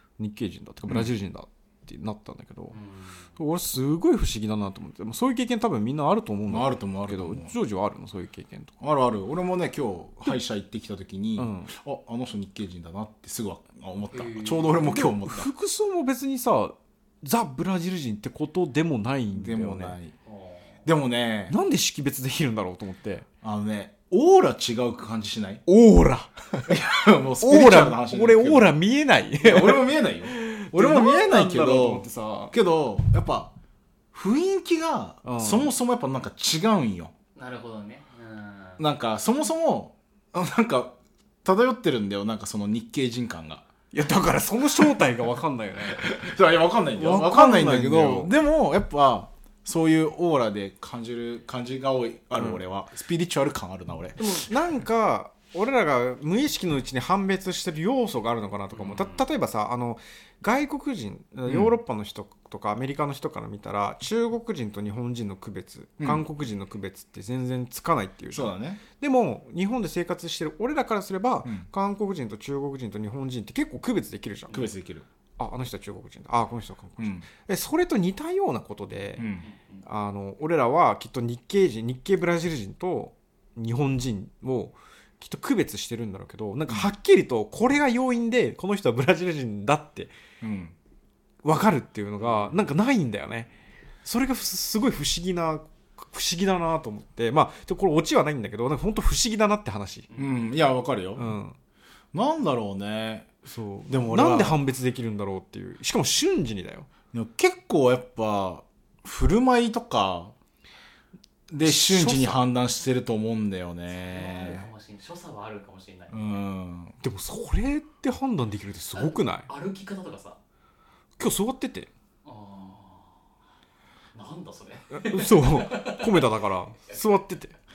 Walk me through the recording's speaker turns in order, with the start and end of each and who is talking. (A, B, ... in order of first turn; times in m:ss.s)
0:00.2-0:02.8 A
0:02.7-0:03.3 B
0:03.4-0:08.7 A
0:06.5-0:07.5 C
0:08.8-0:15.5 C
0:11.4-0:11.7 A
0:14.1-0:14.9 B
0:14.8-0:20.0 A
0:19.3-0:20.1 C
0:20.2-0:20.8 B
0:20.8-0:21.5 C
0:21.5-0:23.2 A
0:23.4-0:25.6 C
0:25.6-0:26.7 A
0:26.7-0:28.8 C
0:27.4-0:32.5 A
0:29.4-0:33.5 C
0:34.1-0:37.1 C
0:35.2-0:35.7 A
0:37.4-0:38.8 B
0:38.8-0:43.6 C
0:43.9-0:46.1 A
0:45.9-0:54.5 C
0:46.9-0:48.3 A
0:52.3-0:52.6 A
0:54.2-1:14.6 A
0:58.7-0:59.2 B
1:01.5-1:01.8 C
1:08.3-1:08.8 C
1:14.5-1:15.0 C
1:15.4-1:19.3 A
1:17.0-1:17.3 C
1:19.2-1:19.5 C
1:19.5-1:19.8 B
1:19.8-1:30.1 A
1:30.4-1:30.8 C
1:31.4-1:33.5 A
1:32.2-1:32.6 B
1:34.0-1:40.1 A
1:40.1-1:40.4 B
1:40.2-1:41.4 C
1:41.1-1:41.6 A
1:42.1-1:43.3 C
1:43.4-1:46.9 A
1:43.9-1:44.6 C
1:47.1-1:50.3 C
1:51.5-1:54.7 C
1:51.6-1:52.4 A
1:53.9-1:56.3 B
1:56.1-1:57.0 C
1:57.0-1:59.5 A
1:58.9-2:00.4 B
2:01.2-2:01.9 A
2:02.2-2:03.2 B
2:04.1-2:06.4 B
2:04.9-2:07.5 A